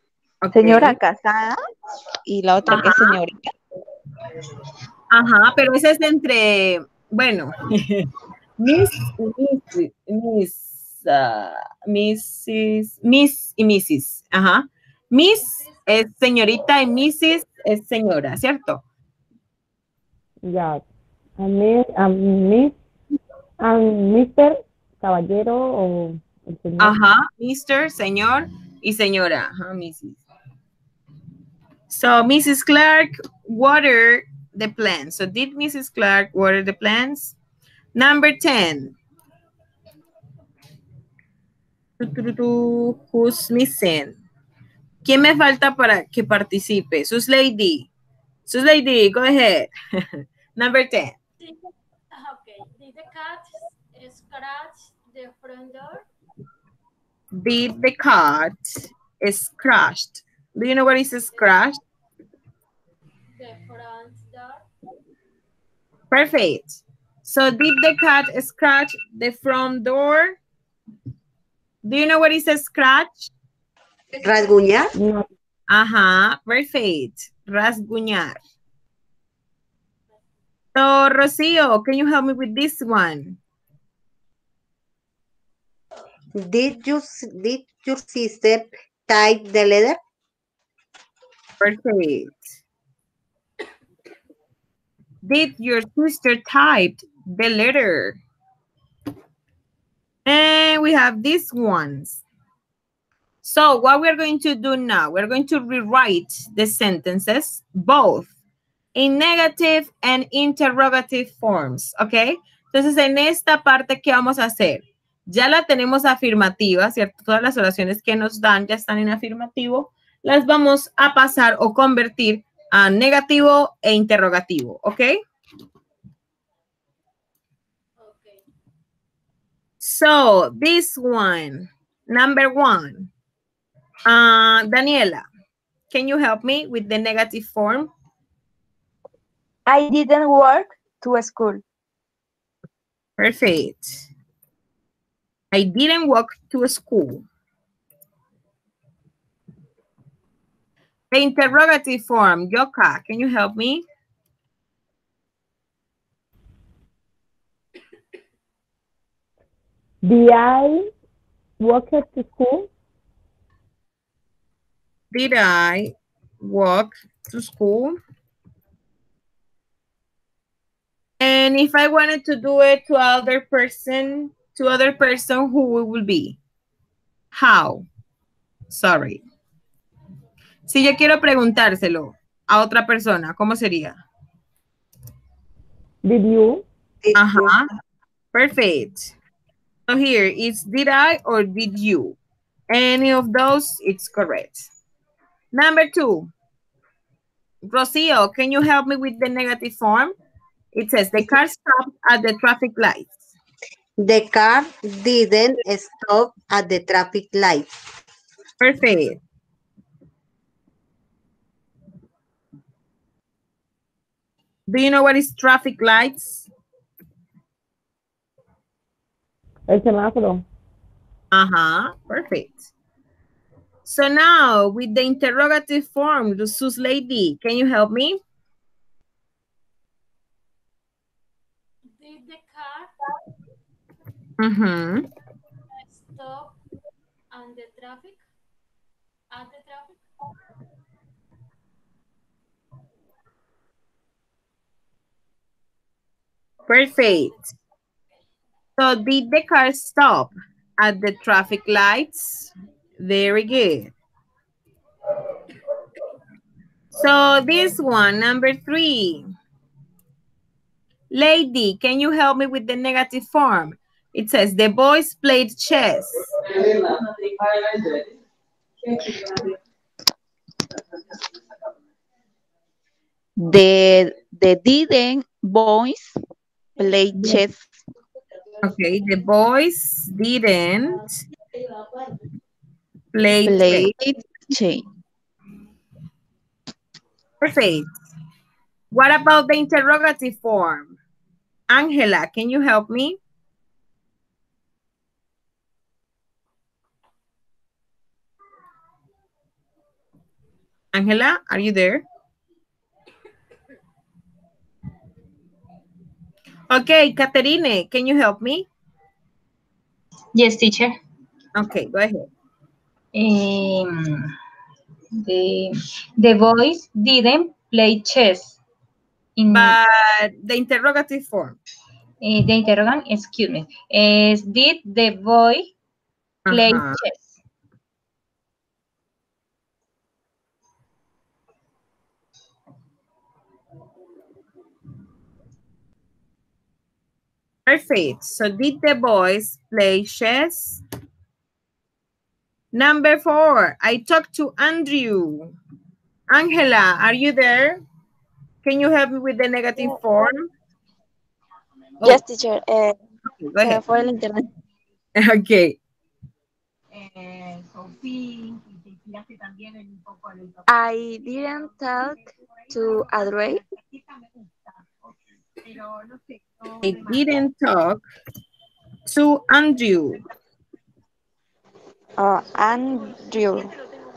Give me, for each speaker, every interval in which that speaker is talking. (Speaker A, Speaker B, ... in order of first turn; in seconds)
Speaker A: 0.4-1.0, 2.7-3.2, 5.1-8.1, 8.6-18.8, 26.8-30.2, 31.9-37.4, 38.0-39.0, 42.0-44.2, 45.0-47.9, 48.5-51.2, 57.4-58.6, 59.2-61.8, 66.1-70.4, 71.8-73.3, 75.7-78.4, 80.8-83.4, 91.6-92.4, 95.2-98.2, 100.3-102.2, 103.4-108.3, 109.0-125.2, 129.8-133.1, 134.1-135.2, 135.9-137.9, 143.2-144.0, 145.5-147.3, 151.1-153.8, 165.1-168.0, 171.2-176.4, 177.3-177.9, 178.7-179.2, 180.7-184.0, 187.2-187.7, 188.3-189.1, 189.9-192.2, 192.7-194.7, 195.5-196.3, 197.7-200.1, 200.7-203.2, 208.6-209.2, 214.7-216.5, 221.3-222.6, 223.8-228.2, 234.4-235.0, 246.7-247.4, 248.8-253.9, 256.9-259.3, 261.1-266.3, 278.6-281.1, 283.1-283.9, 287.4-287.9, 288.9-290.9, 291.7-293.2, 300.9-302.0, 306.7-308.7, 311.6-312.3, 319.5-321.6, 326.5-327.0, 337.7-340.8, 342.7-345.5, 346.3-347.8, 348.6-350.5, 353.3-353.8, 355.2-355.8, 366.8-368.0, 369.1-370.2
Speaker B: 0.5-1.6, 2.3-3.5, 273.4-276.2, 276.8-277.6, 283.4-284.9
Speaker C: 20.4-20.8, 21.4-22.8, 23.6-27.0, 75.0-75.3, 160.0-160.9, 161.6-162.7, 186.0-186.6, 219.7-220.5
Speaker D: 52.1-56.0, 63.4-64.6, 128.0-128.4, 231.9-232.9, 235.8-236.6, 237.3-238.2, 239.3-240.0
Speaker E: 74.2-74.9, 86.4-90.0, 187.0-187.7, 204.0-207.8
Speaker F: 139.7-141.6
Speaker G: 310.4-311.0, 313.1-314.3, 315.2-318.6, 319.4-319.8, 322.2-325.7, 326.5-327.2
Speaker H: 352.0-353.0, 353.6-354.5, 360.7-363.6, 372.2-373.7